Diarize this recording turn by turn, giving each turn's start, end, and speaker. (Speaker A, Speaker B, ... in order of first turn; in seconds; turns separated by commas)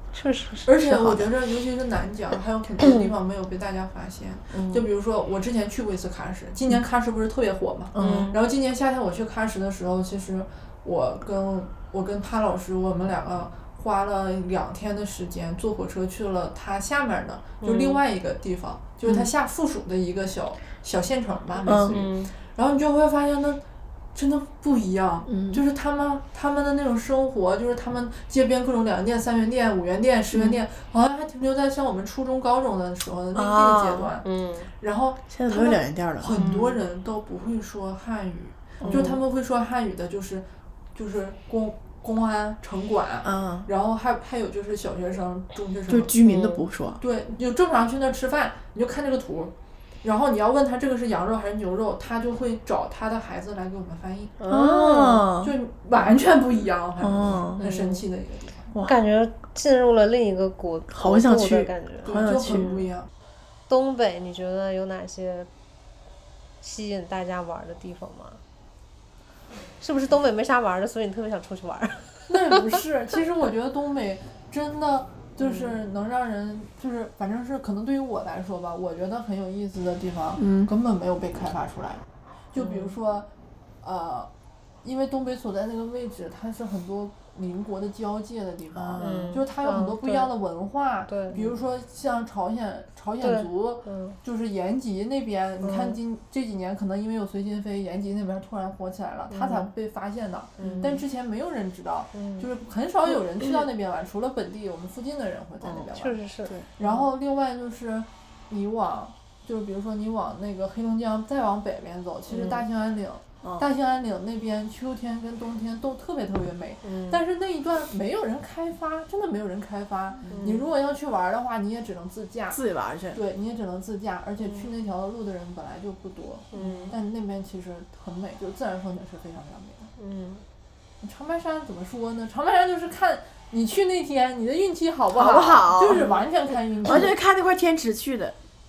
Speaker A: 0.1-0.7, Speaker B: 0.7-23.6, Speaker C: 0.8-1.3, Speaker C: 4.5-4.9, Speaker C: 7.9-8.3, Speaker A: 8.0-8.4, Speaker A: 17.6-18.0, Speaker C: 19.0-19.3, Speaker C: 21.6-21.9, Speaker A: 21.7-22.3, Speaker B: 24.1-34.2, Speaker C: 25.3-25.6, Speaker C: 30.3-30.6, Speaker C: 33.3-34.1, Speaker A: 34.2-34.7, Speaker B: 34.8-46.2, Speaker C: 35.3-36.8, Speaker C: 38.8-39.2, Speaker A: 38.8-39.2, Speaker C: 43.2-43.7, Speaker C: 45.9-47.0, Speaker A: 46.2-46.6, Speaker B: 47.0-54.4, Speaker A: 54.4-55.2, Speaker C: 54.5-55.5, Speaker B: 55.4-58.7, Speaker C: 57.0-57.6, Speaker A: 57.6-58.0, Speaker C: 58.7-59.0, Speaker A: 58.8-62.9, Speaker C: 60.9-62.7, Speaker B: 62.0-63.1, Speaker A: 63.7-65.5, Speaker A: 66.6-68.4, Speaker A: 69.8-72.6, Speaker B: 72.3-83.3, Speaker A: 75.4-75.7, Speaker C: 80.4-80.7, Speaker A: 82.5-83.0, Speaker B: 83.8-84.3, Speaker B: 84.8-106.2, Speaker C: 88.7-89.4, Speaker A: 89.0-90.3, Speaker A: 91.1-91.4, Speaker A: 93.2-94.2, Speaker A: 95.6-96.0, Speaker A: 99.3-99.7, Speaker A: 100.6-101.0, Speaker C: 100.6-101.0, Speaker A: 102.1-102.5, Speaker C: 105.6-105.9, Speaker A: 105.9-107.1, Speaker B: 106.8-122.6, Speaker A: 112.3-112.6, Speaker A: 116.8-117.2, Speaker A: 120.3-120.7, Speaker C: 122.5-123.2, Speaker B: 123.1-129.9, Speaker A: 124.4-124.7, Speaker A: 126.5-126.9, Speaker A: 130.0-130.4, Speaker B: 131.0-137.2, Speaker C: 135.1-136.2, Speaker A: 135.9-136.2, Speaker C: 136.8-138.3